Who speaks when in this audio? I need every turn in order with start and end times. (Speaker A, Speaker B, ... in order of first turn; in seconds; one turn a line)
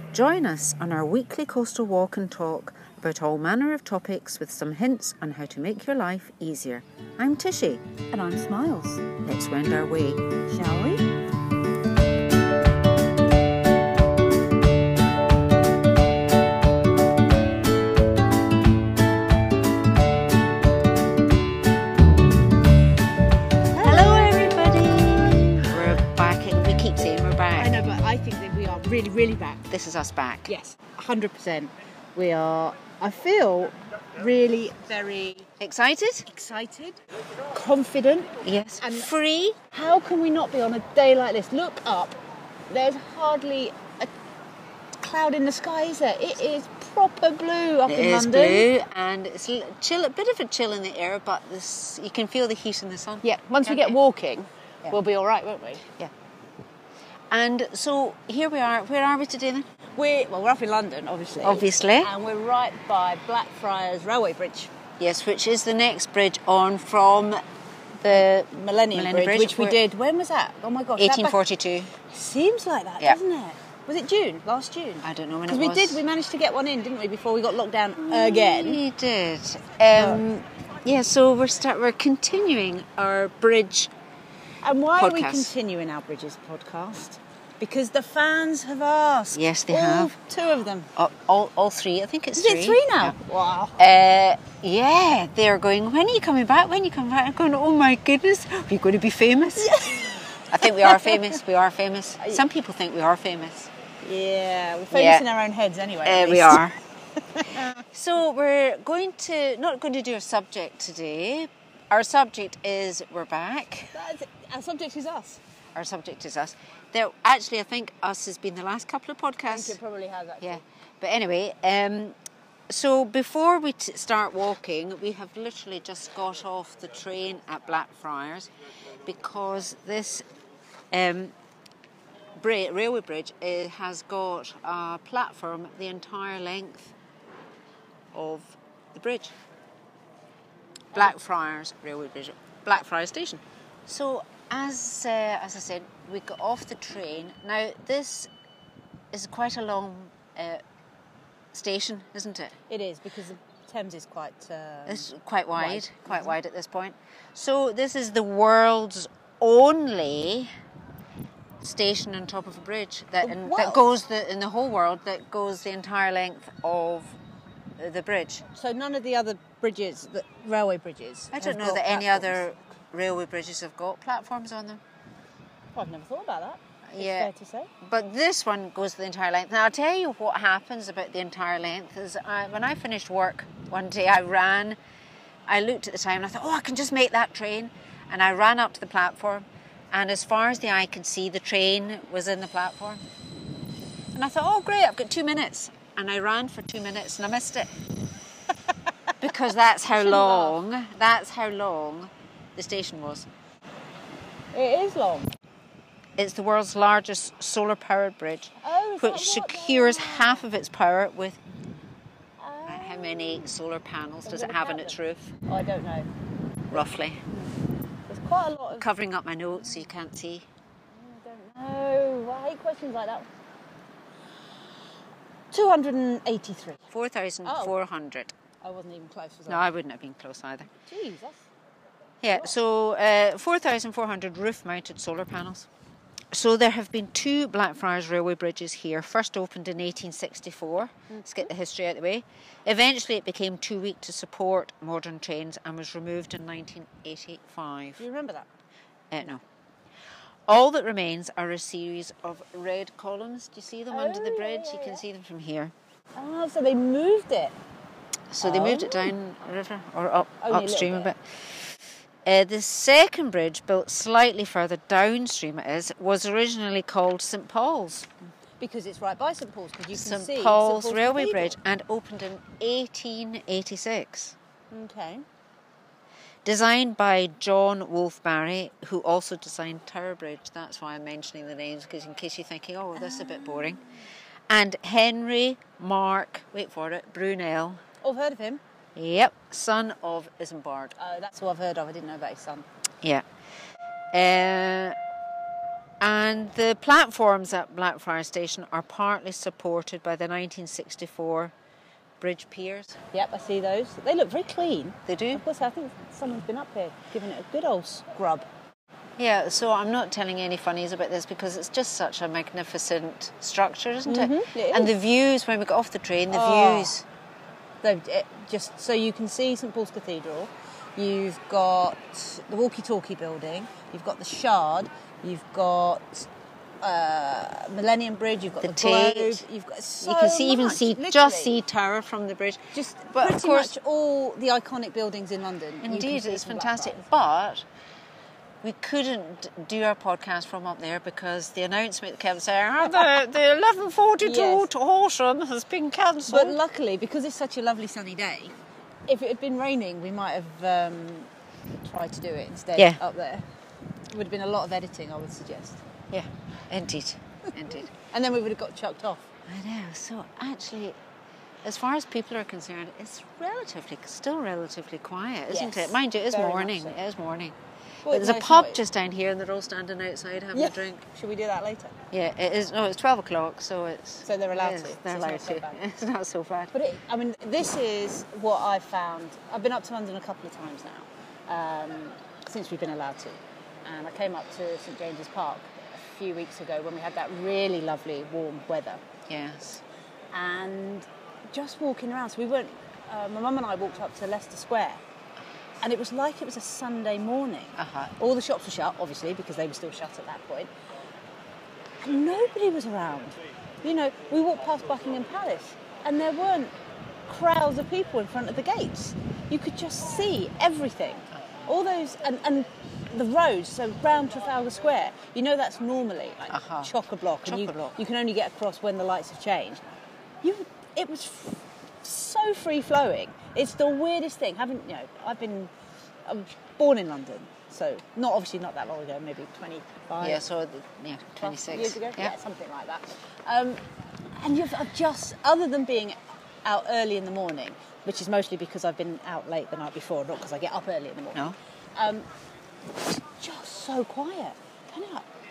Speaker A: 0.1-7.8
Speaker B: 8.1-9.1
Speaker A: 9.2-10.2
Speaker B: 10.5-11.1
Speaker B: 23.7-24.4
Speaker A: 23.8-27.8
Speaker B: 27.6-29.6
Speaker A: 29.7-30.5
Speaker B: 30.4-35.5
Speaker A: 35.6-36.2
Speaker B: 36.2-37.0
Speaker B: 37.5-39.1
Speaker A: 38.4-39.6
Speaker B: 39.7-42.1
Speaker B: 42.7-44.1
Speaker B: 45.0-48.7
Speaker A: 47.9-54.0
Speaker B: 53.2-55.8
Speaker A: 57.3-59.7
Speaker B: 60.0-64.7
Speaker A: 61.4-62.1
Speaker A: 65.0-67.4
Speaker A: 68.0-69.8
Speaker B: 68.1-71.4
Speaker A: 71.0-71.9
Speaker B: 72.0-78.8
Speaker A: 75.0-76.0
Speaker A: 78.0-83.9
Speaker B: 79.9-80.2
Speaker B: 84.6-90.9
Speaker A: 85.0-85.5
Speaker A: 89.3-90.1
Speaker A: 91.0-93.1
Speaker B: 92.3-93.8
Speaker A: 93.8-99.9
Speaker B: 99.5-101.3
Speaker A: 100.5-103.7
Speaker B: 104.0-106.6
Speaker A: 104.9-105.2
Speaker A: 106.0-106.8
Speaker B: 107.3-107.8
Speaker A: 107.8-113.9
Speaker B: 113.9-115.4
Speaker A: 115.7-119.8
Speaker B: 119.5-120.6
Speaker A: 120.4-122.2
Speaker A: 122.7-128.5
Speaker A: 129.0-130.2
Speaker A: 130.9-131.3
Speaker A: 132.4-136.9
Speaker A: 138.1-139.3
Speaker A: 140.9-148.3
Speaker A: 149.1-150.6
Speaker A: 151.5-152.5
Speaker B: 152.7-156.3
Speaker A: 154.9-160.5
Speaker A: 161.6-167.2
Speaker B: 163.2-163.9
Speaker A: 167.8-168.4
Speaker B: 168.5-172.4
Speaker A: 171.3-174.8
Speaker B: 175.7-177.7
Speaker A: 176.9-177.3
Speaker A: 177.8-184.8
Speaker A: 185.5-193.0
Speaker A: 194.1-197.7
Speaker A: 199.2-203.3
Speaker B: 199.9-200.5
Speaker B: 204.5-205.3
Speaker A: 206.2-211.4
Speaker B: 208.6-210.4
Speaker B: 212.4-213.5
Speaker A: 212.7-215.3
Speaker B: 214.2-216.1
Speaker A: 216.7-217.2
Speaker B: 216.7-217.5
Speaker B: 218.1-218.9
Speaker A: 218.8-220.5
Speaker B: 220.9-223.3
Speaker B: 225.5-226.8
Speaker A: 226.9-228.3
Speaker B: 227.4-227.7
Speaker B: 228.6-229.6
Speaker A: 229.5-230.7
Speaker B: 230.8-231.4
Speaker A: 232.2-235.7
Speaker A: 236.3-248.0
Speaker B: 248.0-248.5
Speaker A: 249.1-249.4
Speaker A: 250.5-255.7
Speaker B: 253.9-255.0
Speaker B: 256.1-257.5
Speaker A: 258.3-261.2
Speaker B: 258.4-259.1
Speaker B: 260.4-261.1
Speaker A: 262.2-268.1
Speaker B: 268.6-271.5
Speaker A: 269.9-274.3
Speaker B: 274.7-275.2
Speaker A: 276.4-283.8
Speaker B: 283.3-283.7
Speaker A: 284.5-287.8
Speaker B: 288.0-288.6
Speaker A: 288.9-290.9
Speaker B: 291.0-292.6
Speaker A: 294.1-294.9
Speaker A: 296.0-301.5
Speaker A: 302.2-303.0
Speaker B: 303.1-308.4
Speaker A: 305.1-305.4
Speaker A: 309.2-317.0
Speaker B: 314.1-314.9
Speaker B: 316.3-316.9
Speaker B: 317.8-326.3
Speaker B: 326.8-331.6
Speaker A: 328.6-329.4
Speaker A: 330.0-332.6
Speaker B: 332.7-337.0
Speaker A: 333.1-333.7
Speaker A: 335.8-337.6
Speaker A: 338.6-346.6
Speaker B: 344.2-344.7
Speaker B: 346.3-348.5
Speaker B: 349.1-351.3
Speaker B: 351.9-353.4
Speaker B: 354.1-355.8
Speaker A: 356.1-357.9
Speaker B: 357.9-359.3
Speaker A: 359.5-361.0
Speaker A: 361.6-367.6
Speaker B: 365.5-366.9
Speaker B: 368.0-368.8
Speaker A: 368.1-371.0
Speaker B: 370.5-371.9
Speaker A: 372.1-376.7
Speaker B: 374.2-375.8
Speaker B: 376.7-389.0
Speaker A: 389.3-389.8
Speaker B: 390.3-395.0
Speaker B: 395.8-400.7
Speaker A: 397.8-398.1
Speaker B: 402.0-406.7
Speaker B: 407.3-419.8
Speaker A: 416.5-416.9
Speaker A: 417.4-417.9
Speaker B: 420.4-425.7
Speaker B: 426.2-430.4
Speaker A: 430.2-432.3
Speaker B: 431.4-433.8
Speaker B: 434.4-441.4
Speaker B: 442.0-442.2
Speaker B: 443.1-445.3